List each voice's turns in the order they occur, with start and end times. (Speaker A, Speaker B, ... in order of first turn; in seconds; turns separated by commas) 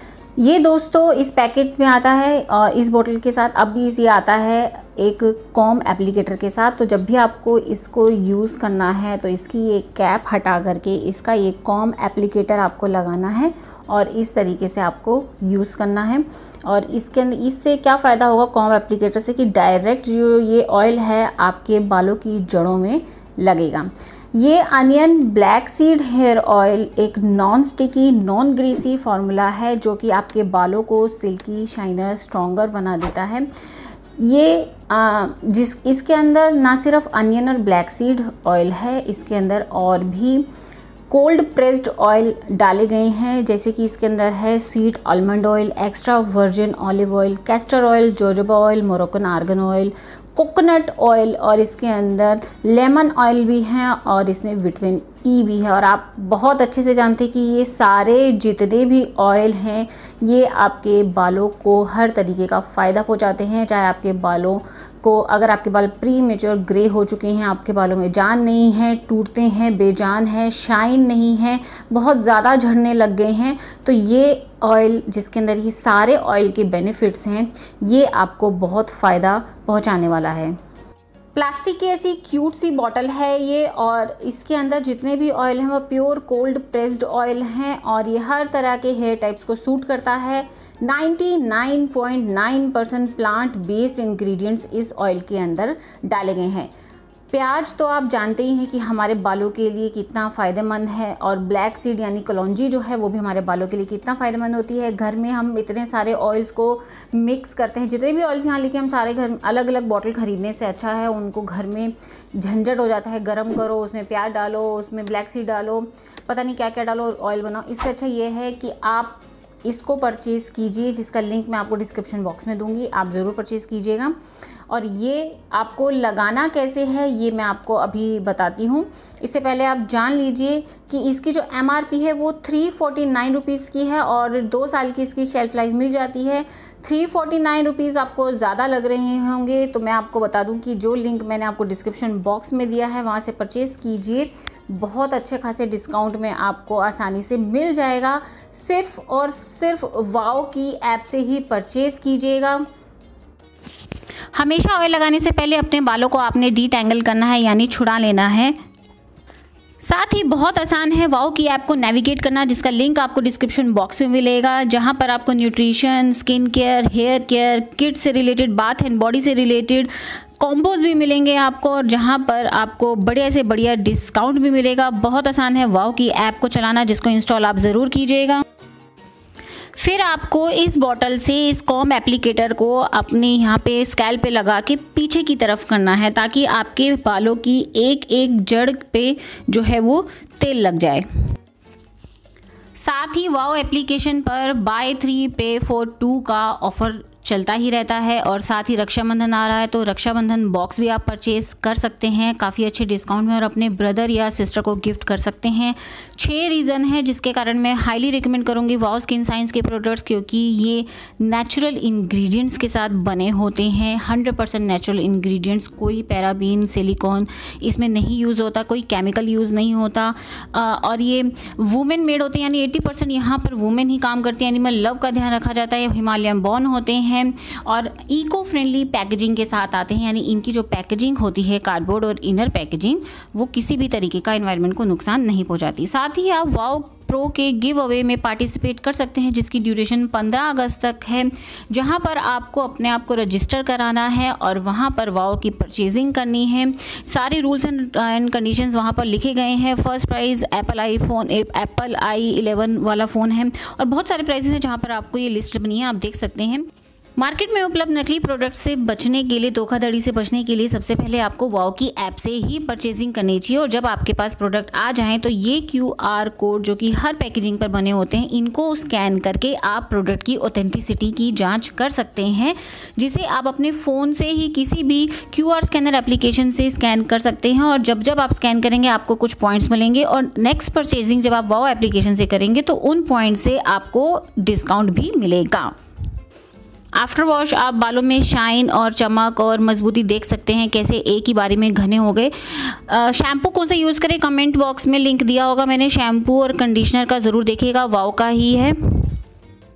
Speaker A: 0.4-33.5, Speaker A: 34.2-40.5, Speaker A: 41.1-80.5, Speaker A: 81.3-96.7, Speaker A: 97.3-124.2, Speaker A: 124.7-152.7, Speaker A: 154.3-158.6, Speaker A: 159.8-178.4, Speaker A: 179.8-191.1, Speaker A: 192.8-285.8, Speaker A: 287.0-299.2